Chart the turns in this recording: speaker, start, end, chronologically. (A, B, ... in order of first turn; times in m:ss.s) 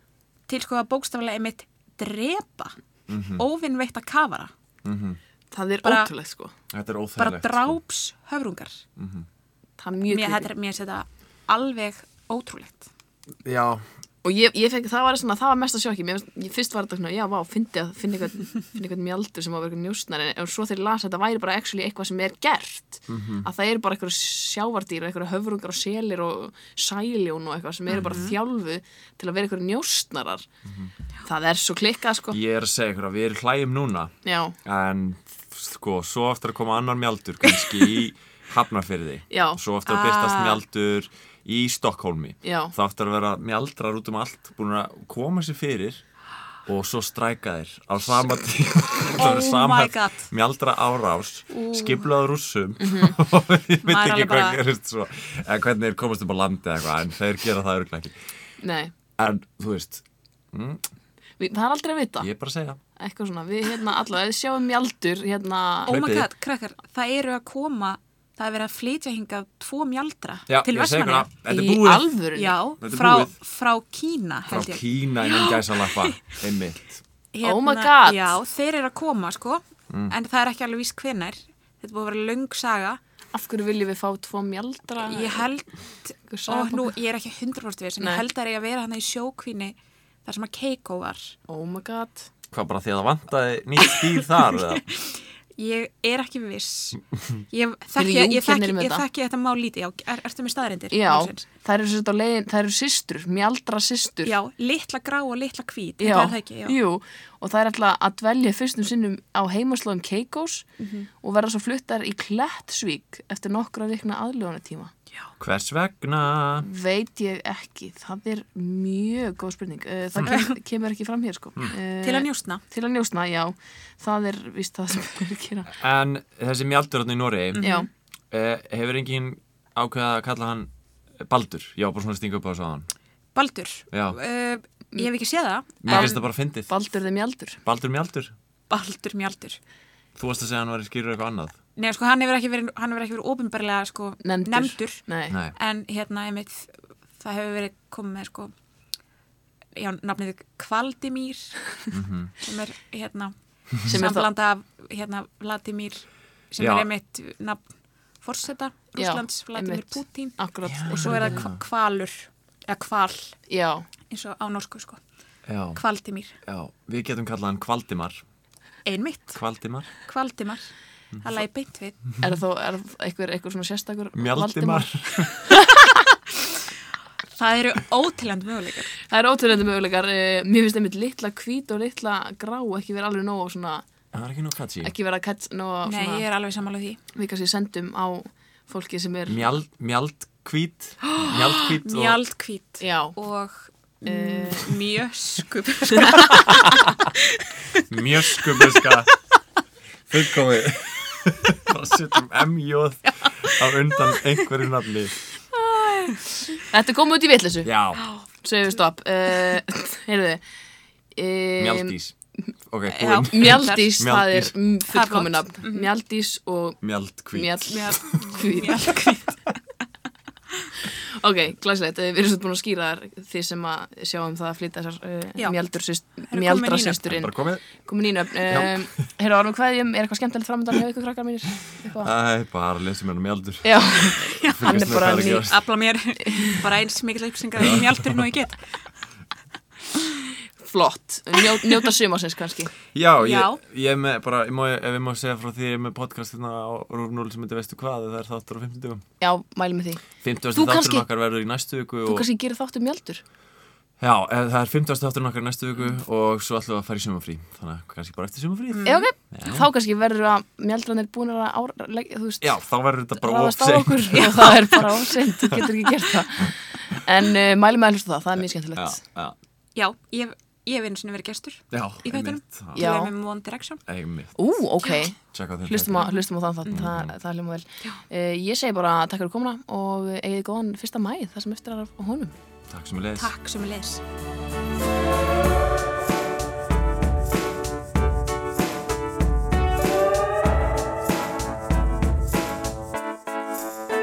0:00.5-0:02.7 A
0:03.1-0:03.4 B
0:03.3-0:04.5 A
0:04.8-0:05.2 B
0:05.5-0:06.5 C
0:05.8-0:06.1 A
0:06.7-0:07.8 B
0:07.2-0:08.8 A
0:09.0-0:09.2 B
0:09.8-0:10.5 C
0:10.1-0:12.9 A
0:13.4-0:13.8 B
0:14.2-0:30.4 C
0:23.1-0:23.5 B
0:27.9-0:28.4 A
0:27.9-0:28.2 B
0:30.7-0:30.9 B
0:31.2-0:32.4 C
0:32.3-0:46.0 B
0:34.2-0:34.6 C
0:39.3-0:39.6 C
0:39.8-0:40.6 A
0:42.4-0:42.7 C
0:46.6-0:58.1 B
0:49.1-0:50.3 A
0:52.8-0:53.2 C
0:53.8-0:54.6 A
0:58.6-0:58.9 C
0:59.2-1:00.8 B
1:01.4-1:02.3 C
1:02.2-1:02.8 B
1:03.0-1:05.9 C
1:05.9-1:11.3 A
1:05.9-1:06.3 B
1:10.5-1:12.1 B
1:11.5-1:12.6 C
1:12.3-1:16.3 A
1:12.8-1:13.3 B
1:14.5-1:17.0 B
1:17.3-1:23.0 A
1:17.4-1:18.4 C
1:19.9-1:20.1 B
1:23.3-1:25.5 C
1:25.0-1:31.3 A
1:26.3-1:26.9 C
1:31.5-1:32.3 C
1:32.5-1:34.8 B
1:33.9-1:41.4 A
1:38.0-1:39.0 C
1:40.9-1:44.3 C
1:44.2-1:46.8 A
1:46.0-1:50.7 C
1:50.8-1:51.1 A
1:51.2-1:54.9 C
1:55.4-1:56.7 B
1:56.6-2:05.7 C
2:00.3-2:00.5 A
2:02.0-2:02.6 A
2:05.7-2:07.6 B
2:07.5-2:07.9 A
2:07.6-2:07.9 C
2:08.3-2:10.7 B
2:11.2-2:12.9 B
2:13.3-2:16.2 A
2:13.9-2:14.2 B
2:15.8-2:16.7 B
2:15.9-2:17.6 C
2:17.6-2:18.3 B
2:18.7-2:19.6 A
2:20.2-2:21.6 B
2:21.8-2:28.5 A
2:24.2-2:25.4 C
2:25.3-2:25.5 B
2:29.8-2:31.6 A
2:31.9-2:32.3 B
2:32.4-2:37.6 A
2:33.8-2:34.3 C
2:36.6-2:36.9 B
2:38.2-2:40.4 A
2:39.0-2:41.4 C
2:40.6-2:41.6 B
2:40.9-2:43.4 A
2:43.5-2:43.8 C
2:44.1-2:45.0 A
2:45.5-2:45.8 B
2:45.7-2:46.3 A
2:46.4-2:48.2 B
2:48.8-2:49.4 A
2:49.3-2:49.9 B
2:50.0-2:52.0 A
2:52.2-2:56.1 C
2:54.1-2:55.3 B
2:57.4-2:58.9 A
2:59.1-3:03.8 C
3:04.1-3:04.9 B
3:04.8-3:06.2 C
3:05.8-3:07.0 A
3:07.1-3:09.4 C
3:09.3-3:12.2 B
3:11.8-3:17.8 A
3:12.8-3:13.1 C
3:14.0-3:14.7 C
3:17.9-3:19.1 B
3:20.1-3:25.2 B
3:23.2-3:24.2 A
3:25.5-3:27.7 C
3:27.6-3:28.0 B
3:28.4-3:30.4 C
3:31.1-3:31.9 C
3:31.6-3:32.1 B
3:32.7-3:34.5 B
3:32.9-3:34.0 A
3:33.3-3:36.8 C
3:34.9-3:35.9 A
3:36.8-3:38.0 B
3:37.3-3:39.1 C
3:37.7-3:39.4 A
3:40.8-3:52.1 C
3:46.3-3:47.2 A
3:47.1-3:47.6 B
3:48.5-3:48.8 B
3:52.0-3:55.6 B
3:53.6-3:55.5 C
3:54.3-3:58.8 A
3:56.3-3:56.5 C
3:57.6-3:58.2 B
4:00.6-4:02.8 C
4:02.9-4:09.0 B
4:03.2-4:03.6 A
4:09.2-4:11.0 C
4:10.2-4:12.3 B
4:12.1-4:13.2 C
4:14.0-4:19.7 B
4:18.7-4:19.1 A
4:18.8-4:22.5 C
4:22.4-4:24.7 B
4:23.2-4:29.0 C
4:28.4-4:29.4 B
4:29.8-4:33.8 A
4:31.7-4:32.8 B
4:32.8-4:33.1 C
4:33.9-4:34.4 B
4:34.4-4:42.3 C
4:35.3-4:36.1 B
4:36.0-4:36.9 A
4:36.7-4:37.1 B
4:42.7-4:43.3 B
4:43.2-4:44.0 A